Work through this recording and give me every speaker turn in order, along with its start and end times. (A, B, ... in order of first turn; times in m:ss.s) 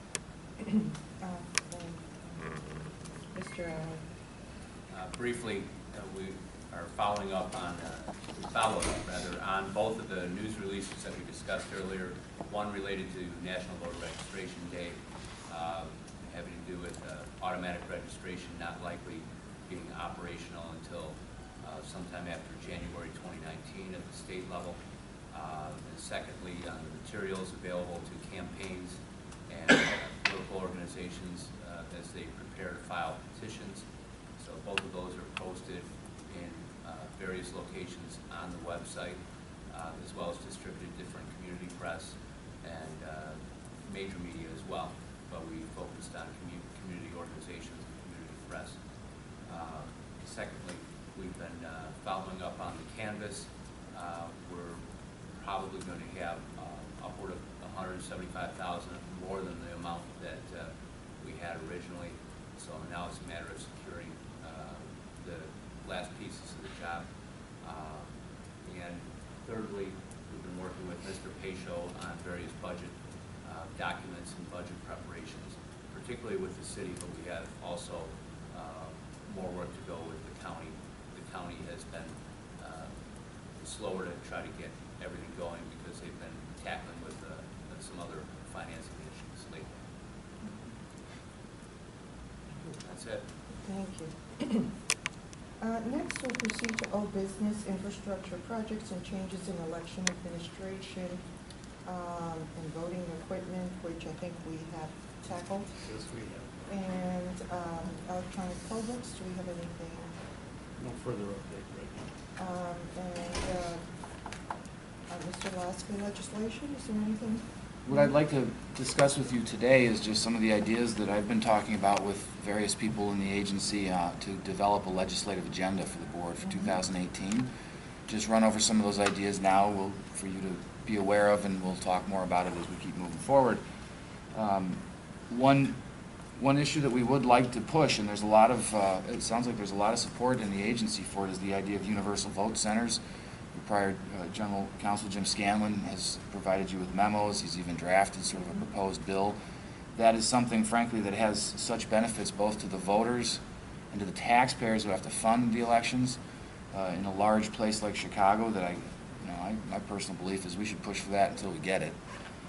0:00.6-0:02.5 A
0:03.3-0:04.0 A
0:04.9-0:24.8 B
0:25.3-0:29.0 B
0:29.5-0:33.8 B
0:34.4-0:48.8 B
0:49.4-0:54.8 B
0:55.3-1:07.1 B
1:07.6-1:08.1 B
1:08.6-1:22.9 B
1:23.6-1:29.7 B
1:32.8-1:33.2 B
1:33.6-1:34.7 A
1:35.6-1:41.2 A
1:41.8-1:45.8 A
1:45.8-1:46.7 C
1:46.7-1:50.2 A
1:50.8-1:52.1 C
1:52.4-1:53.8 A
1:55.1-1:57.4 A
1:57.8-2:07.5 D
2:08.1-2:13.6 D
2:14.3-2:15.8 D
2:16.4-2:23.0 D
2:23.5-2:29.4 D
2:29.9-2:36.2 D
2:36.7-2:42.0 D